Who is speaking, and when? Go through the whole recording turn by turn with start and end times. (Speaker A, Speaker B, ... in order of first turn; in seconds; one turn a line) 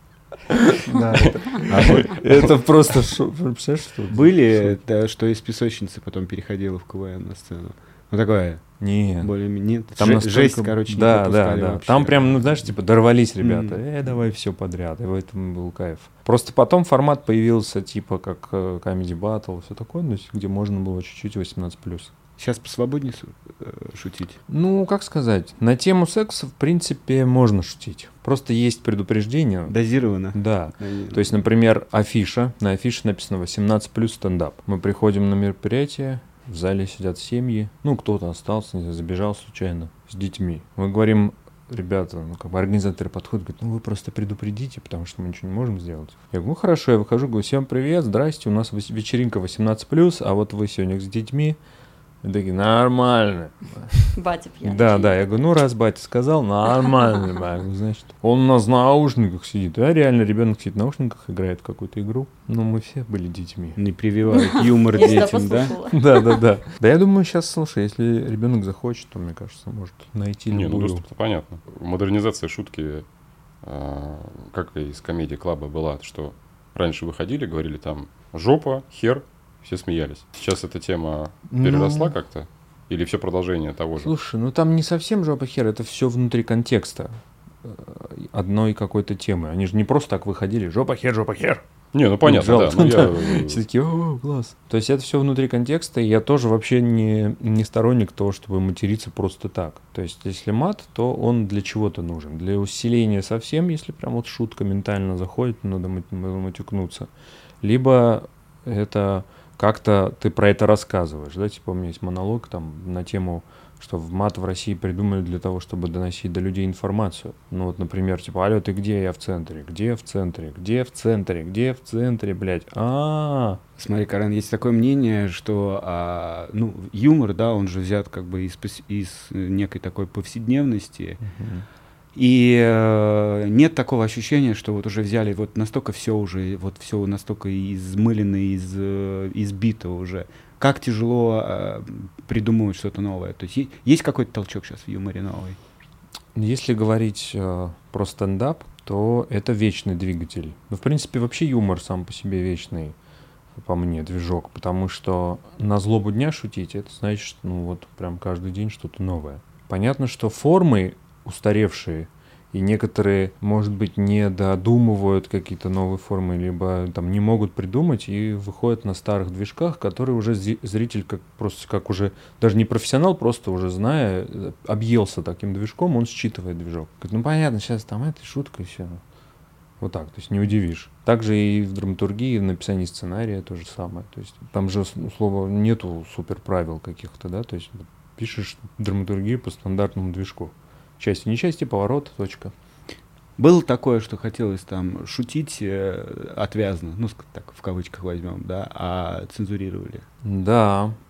Speaker A: 0.5-4.8
Speaker B: 1.1-2.5
Speaker C: 1.7-2.2
Speaker C: 4.1-8.7
Speaker A: 8.8-9.3
Speaker C: 9.2-12.7
Speaker A: 9.9-22.1
Speaker C: 13.4-13.8
Speaker C: 22.4-24.4
Speaker A: 24.5-29.7
Speaker C: 29.7-31.4
Speaker A: 30.3-51.6
Speaker A: 52.2-54.1
Speaker D: 54.1-55.3
Speaker A: 54.6-63.8
Speaker C: 63.8-65.8
Speaker D: 64.3-66.4
Speaker A: 65.9-71.0
Speaker B: 70.5-73.0
Speaker B: 73.6-84.1
Speaker A: 81.5-82.1
Speaker A: 84.0-91.6
Speaker B: 91.9-93.6
Speaker A: 92.2-107.1
Speaker A: 107.6-123.6
Speaker C: 123.8-131.2
Speaker A: 131.2-131.7
Speaker C: 132.1-145.6
Speaker A: 146.3-152.9
Speaker A: 153.6-179.0
Speaker A: 179.8-192.5
Speaker C: 193.4-200.0
Speaker A: 200.2-200.9